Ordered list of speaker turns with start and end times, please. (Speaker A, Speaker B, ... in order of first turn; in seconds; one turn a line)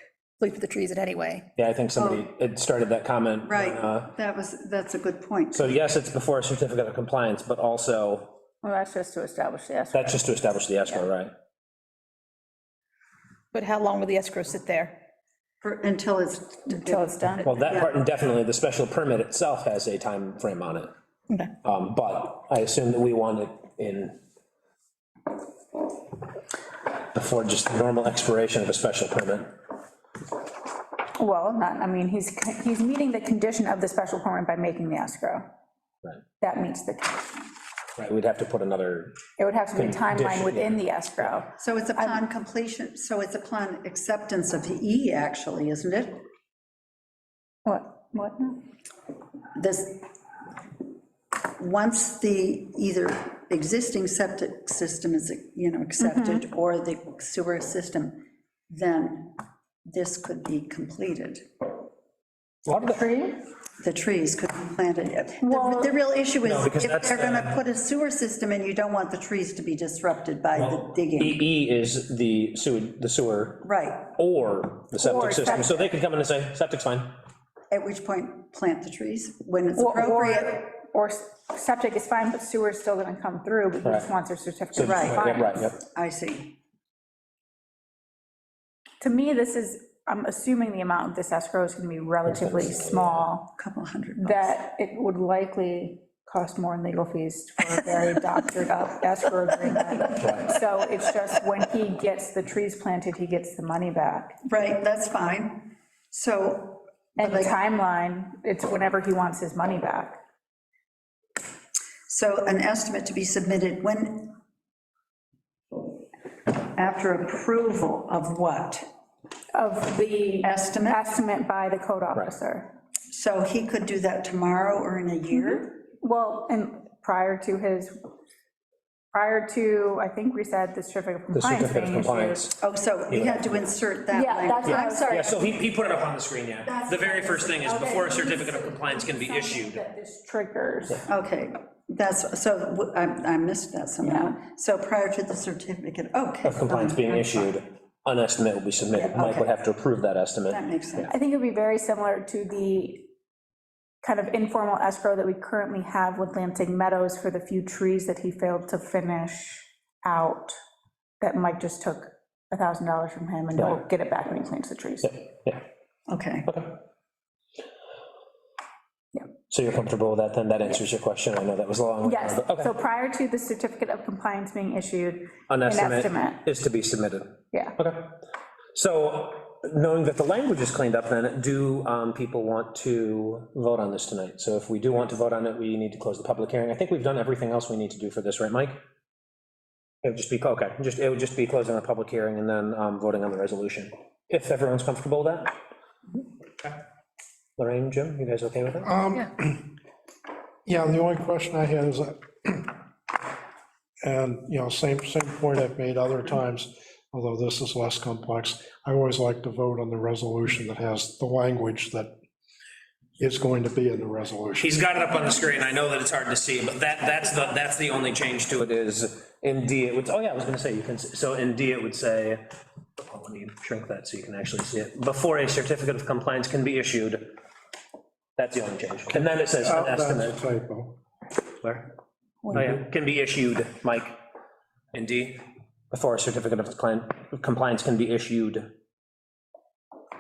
Speaker A: 0.4-1.5
Speaker B: 1.6-4.1
Speaker C: 2.0-2.3
Speaker C: 3.5-5.8
Speaker B: 5.5-8.4
Speaker D: 8.6-10.3
Speaker B: 9.9-11.3
Speaker A: 13.5-15.0
Speaker C: 15.6-17.9
Speaker D: 16.7-17.6
Speaker B: 17.4-20.9
Speaker B: 21.6-24.2
Speaker B: 27.1-29.5
Speaker D: 31.2-35.4
Speaker D: 36.4-37.5
Speaker B: 38.0-39.2
Speaker D: 39.4-42.2
Speaker B: 39.8-41.4
Speaker C: 41.6-46.2
Speaker D: 47.6-48.6
Speaker C: 49.6-50.1
Speaker C: 51.6-61.4
Speaker D: 56.0-56.4
Speaker B: 62.7-63.0
Speaker D: 62.7-63.4
Speaker C: 63.8-71.4
Speaker D: 65.4-65.9
Speaker B: 66.4-67.6
Speaker B: 70.6-77.1
Speaker C: 73.6-74.1
Speaker D: 75.0-75.9
Speaker C: 77.7-80.6
Speaker D: 79.8-85.7
Speaker B: 83.8-84.1
Speaker B: 84.7-85.8
Speaker C: 84.8-86.5
Speaker D: 89.0-93.5
Speaker B: 92.3-93.3
Speaker C: 93.6-94.6
Speaker D: 94.2-104.4
Speaker B: 100.2-100.5
Speaker C: 104.5-107.6
Speaker D: 107.2-110.2
Speaker C: 112.1-114.4
Speaker C: 116.8-118.8
Speaker D: 119.5-122.7
Speaker C: 120.4-121.0
Speaker C: 123.1-125.8
Speaker D: 125.3-128.0
Speaker D: 129.1-132.5
Speaker B: 131.3-132.5
Speaker C: 132.5-135.6
Speaker B: 133.1-133.6
Speaker D: 134.1-135.5
Speaker B: 134.6-139.8
Speaker C: 136.7-137.9
Speaker D: 137.5-141.1
Speaker C: 141.1-147.5
Speaker D: 144.0-144.4
Speaker B: 146.4-151.1
Speaker C: 148.9-149.5
Speaker C: 150.5-151.1
Speaker D: 151.1-153.1
Speaker D: 154.0-160.6
Speaker D: 161.2-165.2
Speaker B: 165.0-165.6
Speaker C: 166.1-166.5
Speaker B: 166.5-166.8
Speaker B: 169.5-172.7
Speaker D: 172.0-176.4
Speaker B: 175.5-178.2
Speaker B: 178.7-188.8
Speaker B: 190.0-195.5
Speaker B: 197.6-198.9
Speaker E: 198.8-199.7
Speaker E: 200.7-202.8
Speaker E: 204.0-212.1
Speaker E: 213.2-214.8
Speaker B: 214.6-222.4
Speaker B: 223.0-227.3
Speaker B: 228.4-230.3
Speaker E: 229.2-231.0
Speaker B: 232.5-234.2
Speaker B: 234.9-238.7